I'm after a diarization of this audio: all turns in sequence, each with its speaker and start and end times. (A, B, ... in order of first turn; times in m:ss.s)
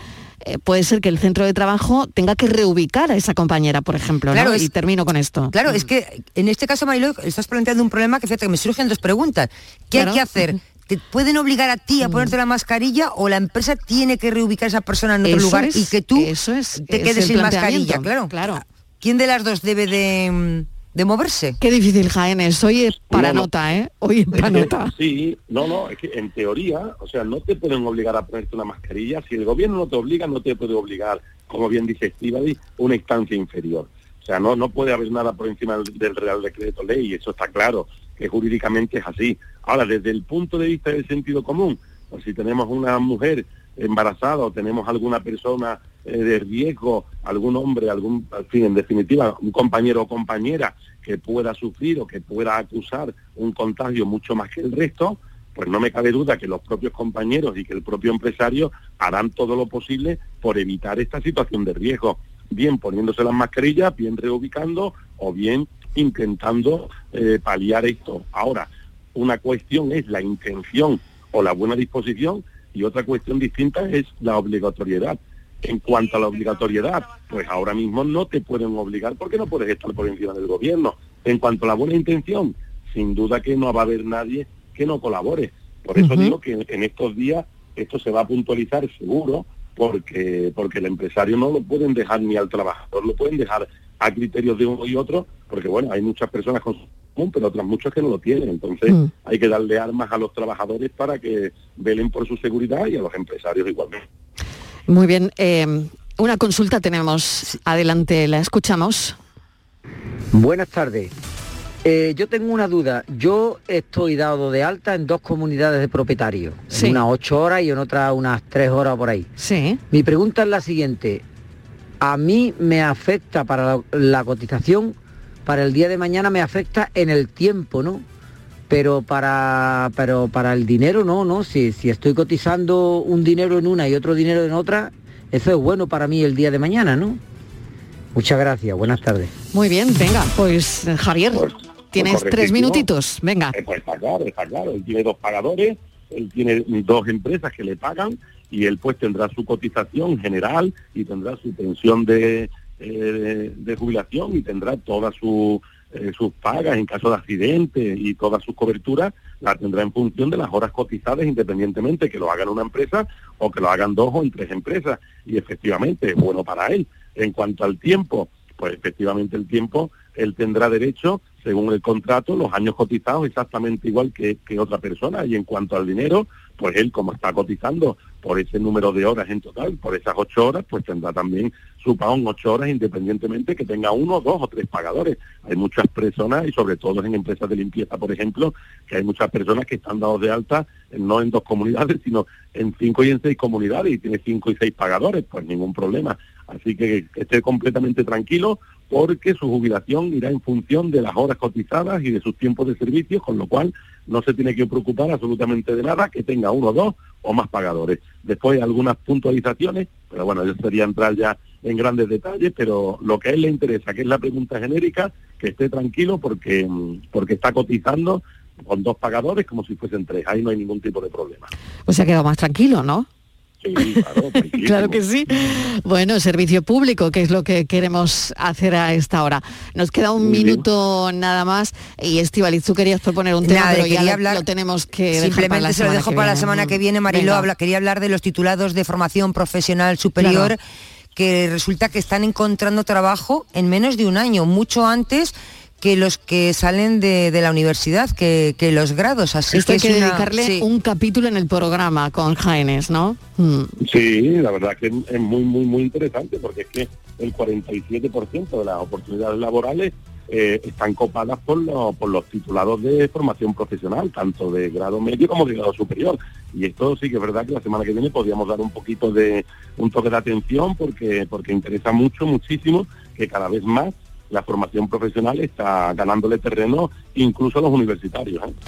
0:00.4-0:05.6 A
0:04.3-0:04.7 B
0:05.5-0:21.6 B
0:09.9-0:10.4 A
0:12.0-0:12.3 A
0:15.2-0:18.6 A
0:21.6-0:24.9 A
0:23.1-0:23.5 C
0:24.3-1:44.0 C
1:26.0-1:26.4 A
1:44.9-1:49.2 A
1:50.3-1:51.1 D
1:51.8-1:59.3 D
1:56.7-1:57.0 A
1:59.4-1:59.8 A
1:59.9-2:01.2 D
2:02.0-2:08.0 D
2:08.7-2:17.2 D
2:18.1-2:19.3 D
2:19.5-2:23.5 A
2:21.3-2:22.8 C
2:23.5-3:41.5 C
3:41.9-3:43.1 A
3:43.6-3:45.0 C
3:43.8-3:57.5 A
3:50.2-3:50.6 C
3:53.4-3:54.4 B
3:55.1-4:00.6 B
4:00.2-4:00.5 A
4:01.1-4:10.6 B
4:09.5-4:13.7 A
4:13.8-4:38.5 C